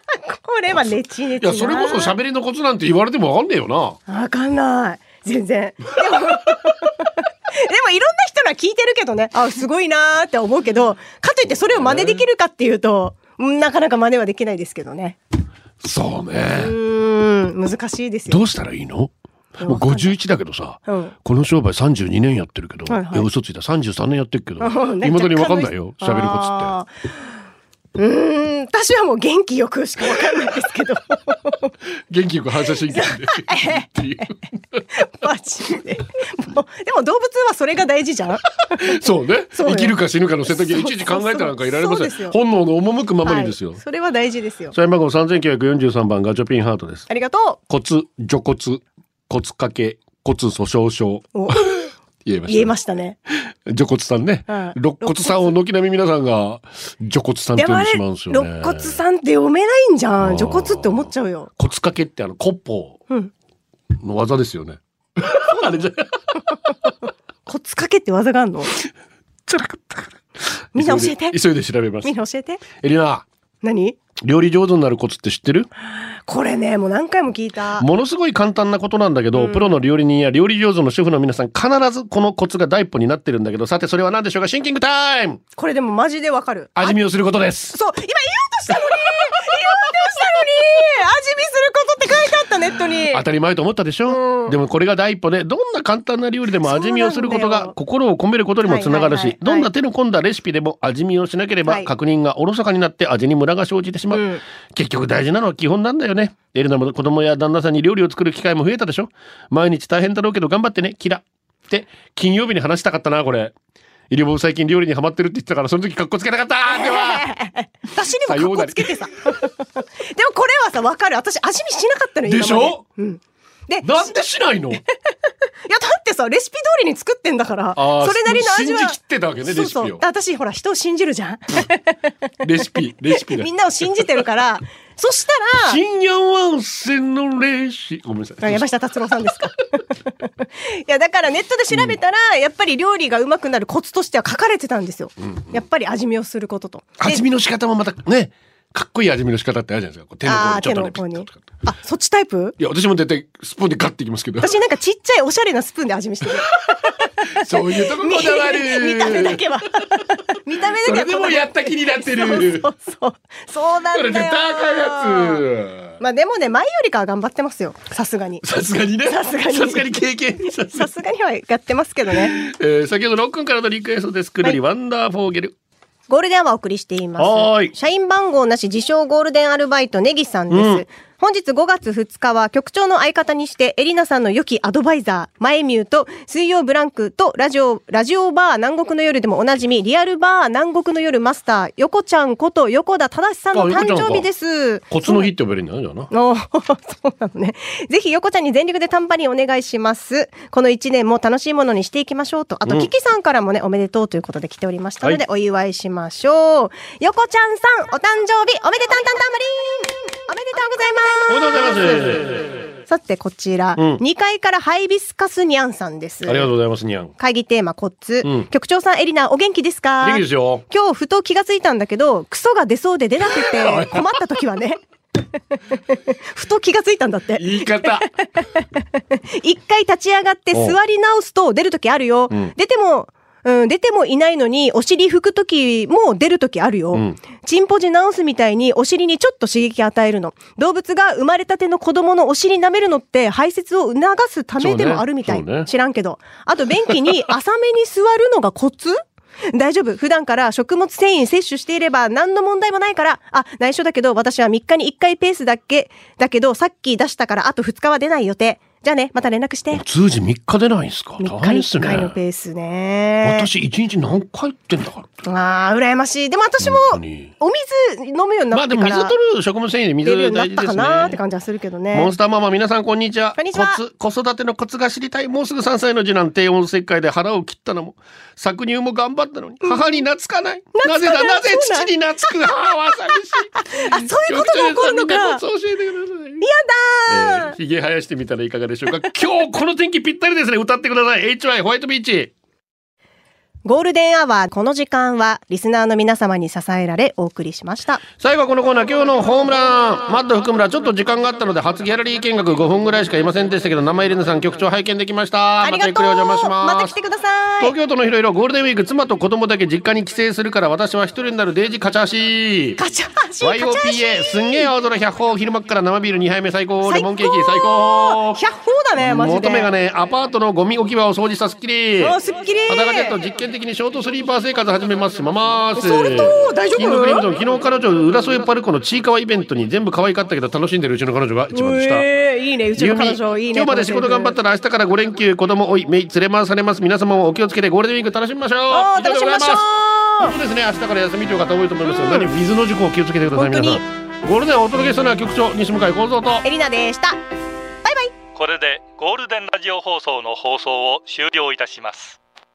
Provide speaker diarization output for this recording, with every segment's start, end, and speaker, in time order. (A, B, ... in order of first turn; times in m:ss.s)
0:00.3-0:02.2 A
0:01.4-0:04.0 B
0:04.1-0:15.2 A
0:11.6-0:12.2 B
0:15.8-0:16.8 B
0:16.5-0:18.4 A
0:18.3-0:26.7 B
0:19.6-0:20.2 A
0:20.9-0:21.2 A
0:22.9-0:23.3 A
0:24.6-0:26.9 A
0:28.0-0:31.7 A
0:32.1-0:34.8 B
0:32.9-0:34.2 A
0:34.9-0:39.0 A
0:38.7-0:43.8 B
0:39.6-0:42.4 A
0:43.2-0:44.8 A
0:44.7-0:47.1 B
0:47.1-0:47.6 A
0:47.7-0:52.7 B
0:51.3-0:51.9 A
0:52.5-0:53.2 A
0:53.3-0:59.0 B
0:54.5-0:55.5 A
0:57.6-1:01.5 A
1:00.2-1:03.0 B
1:04.0-1:06.4 B
1:07.5-1:08.7 A
1:09.5-1:10.2 B
1:10.7-1:12.1 B
1:10.8-1:11.4 A
1:12.0-1:12.6 A
1:12.7-1:13.2 B
1:13.6-1:14.0 A
1:14.2-1:15.7 B
1:15.8-1:17.9 A
1:17.8-1:25.4 B
1:19.4-1:19.7 A
1:25.6-1:27.0 A
1:26.8-1:27.8 B
1:27.7-1:33.2 A
1:28.8-1:29.2 B
1:33.0-1:53.5 B
1:34.1-1:34.5 A
1:36.6-1:37.8 A
1:38.6-1:39.7 A
1:44.1-1:44.4 A
1:54.1-1:57.3 B
1:56.7-2:04.2 A
1:58.3-1:59.4 B
2:02.2-2:02.8 B
2:03.8-2:04.8 B
2:05.6-2:12.1 A
2:07.8-2:10.0 B
2:12.4-2:13.5 B
2:13.1-2:15.8 A
2:15.7-2:18.7 B
2:18.4-2:27.2 A
2:21.7-2:22.0 B
2:27.0-2:31.5 B
2:30.3-2:32.6 A
2:32.6-2:34.6 B
2:34.4-2:45.4 A
2:36.7-2:40.0 B
2:40.8-2:42.7 B
2:43.9-2:46.0 B
2:46.0-2:48.4 A
2:48.4-2:50.9 B
2:49.0-2:50.0 A
2:50.7-2:52.4 A
2:52.1-2:55.6 B
2:56.1-3:15.3 A
2:57.2-2:57.7 B
3:00.5-3:00.8 B
3:13.5-3:14.3 B
3:14.9-3:16.1 B
3:16.1-3:32.2 A
3:31.3-3:32.6 B
3:32.9-3:36.5 A
3:33.8-3:34.0 B
3:36.2-3:37.1 B
3:37.2-3:44.8 A
3:38.2-3:38.5 B
3:40.0-3:40.6 B
3:43.3-3:44.2 B
3:45.9-4:19.8 A
3:47.4-3:48.1 B
3:56.9-3:57.2 B
4:04.6-4:05.7 B
4:19.7-4:22.2 B
4:21.2-4:23.5 A
4:23.2-4:25.1 B
4:25.2-4:29.2 A
4:26.6-4:27.3 B
4:28.5-4:31.2 B
4:30.0-4:32.1 A
4:31.9-4:46.5 B
4:33.4-4:33.8 A
4:39.6-4:40.0 A
4:40.8-4:41.9 A
4:43.5-4:45.4 A
4:46.4-4:47.6 A
4:47.1-4:52.3 B
4:53.6-4:58.0 A
4:58.2-5:06.9 B
5:05.6-5:07.7 A
5:07.6-5:12.8 B
5:12.8-5:14.7 A
5:13.4-5:18.4 B
5:16.9-5:19.7 A
5:19.0-5:22.2 B
5:22.0-5:23.2 A
5:22.7-5:32.1 B
5:25.8-5:27.2 A
5:31.5-5:34.4 A
5:32.8-5:46.4 B
5:38.7-5:40.4 A
5:41.9-5:42.3 A
5:43.4-5:43.8 A
5:46.4-5:47.2 A
5:47.8-5:48.1 A
5:48.4-5:52.2 C